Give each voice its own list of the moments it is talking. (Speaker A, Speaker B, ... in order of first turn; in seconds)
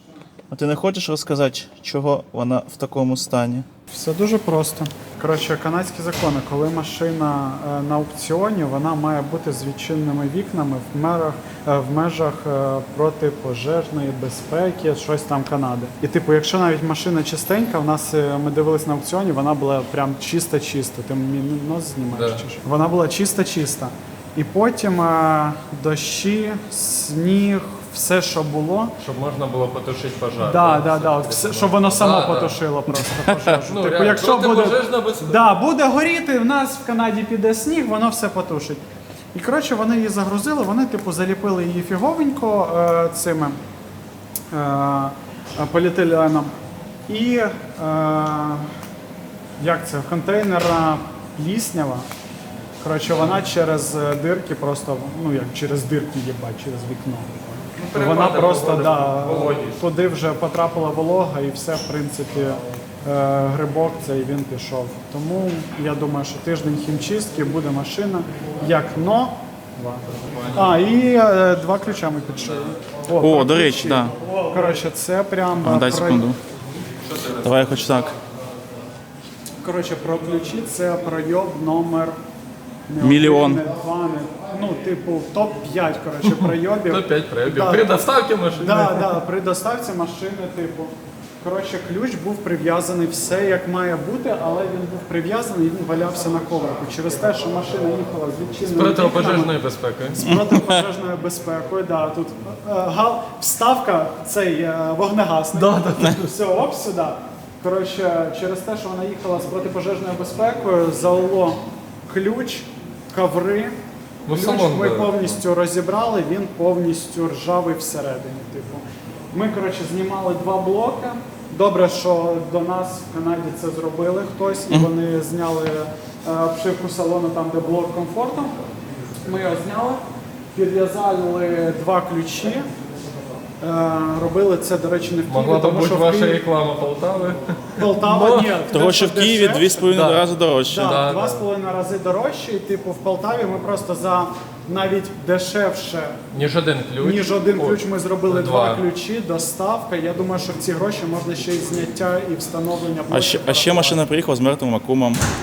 Speaker A: 0.5-3.7, 73.2-74.2, 75.6-76.4, 77.4-78.2, 83.0-83.6, 100.3-100.8, 138.7-140.9, 153.1-155.2
Speaker B: 3.9-28.9, 30.4-38.8, 39.3-43.6, 44.5-46.5, 47.1-48.7, 49.6-52.1, 52.8-57.4, 57.9-76.3, 79.6-82.2, 82.9-87.9, 88.6-99.5, 100.2-113.8, 114.3-128.6, 129.2-130.0, 130.6-132.7, 133.6-136.4, 137.8-140.0, 140.7-146.2, 147.0-154.1
Speaker C: 22.1-22.4, 29.0-32.6, 33.5-35.5, 57.8-59.8, 70.1-72.7, 77.0-77.7, 86.8-89.2, 98.7-100.2, 114.3-115.4, 135.3-138.5, 139.9-140.2, 140.8-141.4, 146.3-148.8